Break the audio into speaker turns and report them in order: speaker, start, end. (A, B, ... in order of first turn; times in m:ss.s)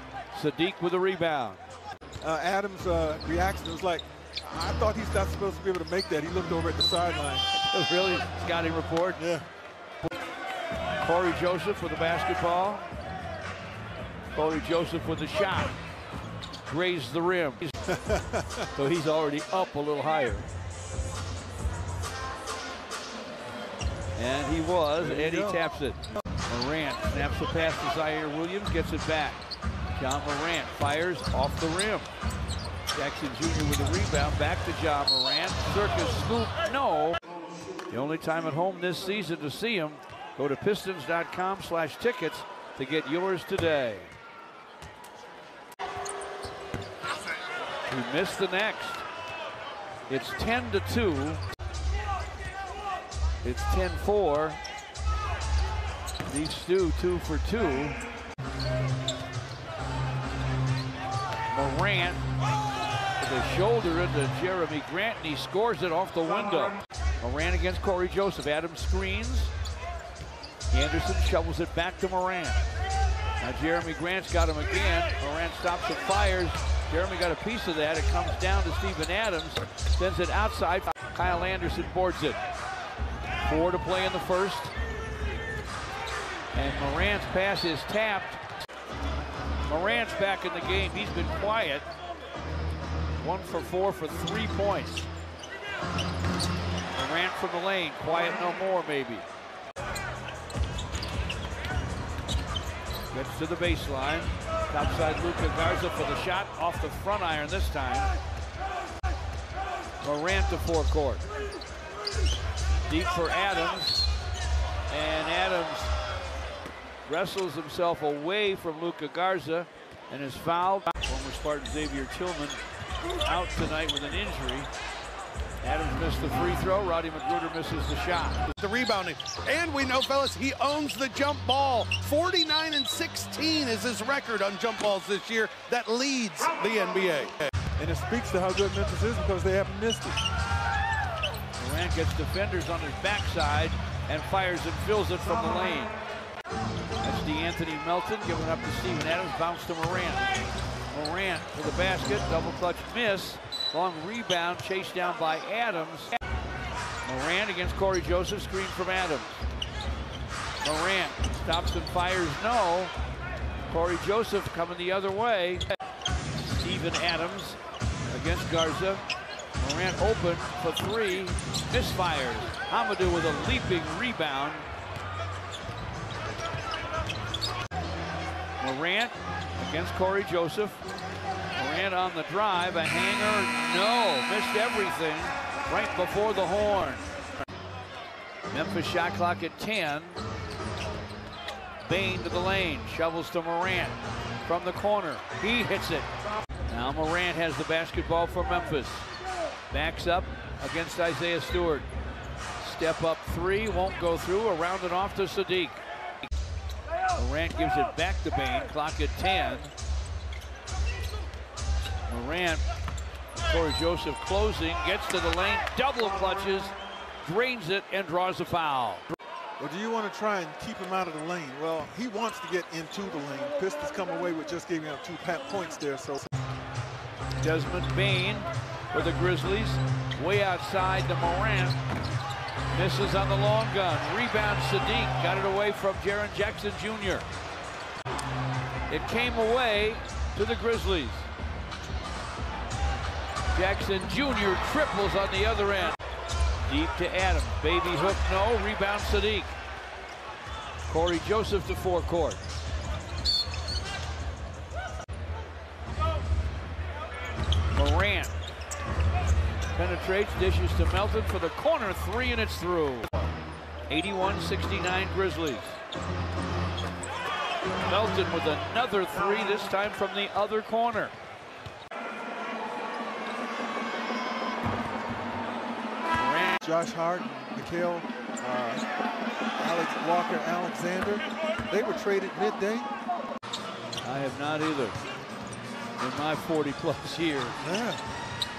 0:00.3-0:01.6 A
0:02.2-0:07.5 B
0:07.6-0:09.2 A
0:09.2-0:09.5 B
0:11.0-0:12.8 A
0:14.3-0:15.8 A
0:16.7-0:17.7 A
0:17.9-0:18.7 B
0:18.8-0:20.5 A
0:24.2-0:29.4 A
0:25.0-0:25.6 B
0:30.0-0:32.1 A
0:32.9-0:37.2 A
0:37.9-0:44.1 A
0:47.9-0:49.1 A
0:50.1-0:51.4 A
0:53.4-0:54.6 A
0:56.3-0:58.0 A
1:01.5-1:02.2 A
1:03.2-1:09.5 A
1:10.7-1:12.6 A
1:13.4-1:22.4 A
1:23.4-1:24.7 A
1:26.5-1:28.4 A
1:29.7-1:31.8 A
1:33.2-1:35.1 A
1:36.9-1:39.3 A
1:43.1-1:48.1 A
1:50.0-1:51.2 A
1:52.9-1:54.1 A
1:54.9-1:56.0 A
1:57.1-2:02.6 A
2:03.2-2:04.7 A
2:05.6-2:08.4 A
2:08.5-2:17.4 C
2:17.8-2:20.2 B
2:21.6-2:26.0 A
2:27.0-2:30.3 A
2:30.9-2:36.2 A
2:37.0-2:39.4 A
2:40.6-2:42.9 A
2:43.7-2:45.6 A
2:46.4-2:49.0 A
2:49.6-2:54.7 A
2:58.6-3:00.8 A
3:01.6-3:07.1 A
3:08.5-3:10.2 A
3:11.8-3:16.1 A
3:16.7-3:19.1 A
3:19.7-3:21.9 A
3:22.6-3:25.8 A
3:27.2-3:29.7 A
3:32.1-3:32.6 A
3:33.3-3:39.0 A
3:39.6-3:46.2 B
3:47.4-3:51.8 A
3:52.7-3:57.3 A
3:58.9-4:01.3 A
4:03.5-4:06.0 A
4:06.7-4:09.6 A
4:10.9-4:12.4 A
4:17.7-4:18.3 A
4:19.7-4:23.1 A
4:23.9-4:25.8 A
4:27.8-4:31.1 A
4:36.1-4:36.6 A
4:36.6-4:38.8 B
4:39.6-4:42.9 B
4:44.0-4:45.0 A
4:46.0-4:47.6 A
4:47.6-4:48.0 B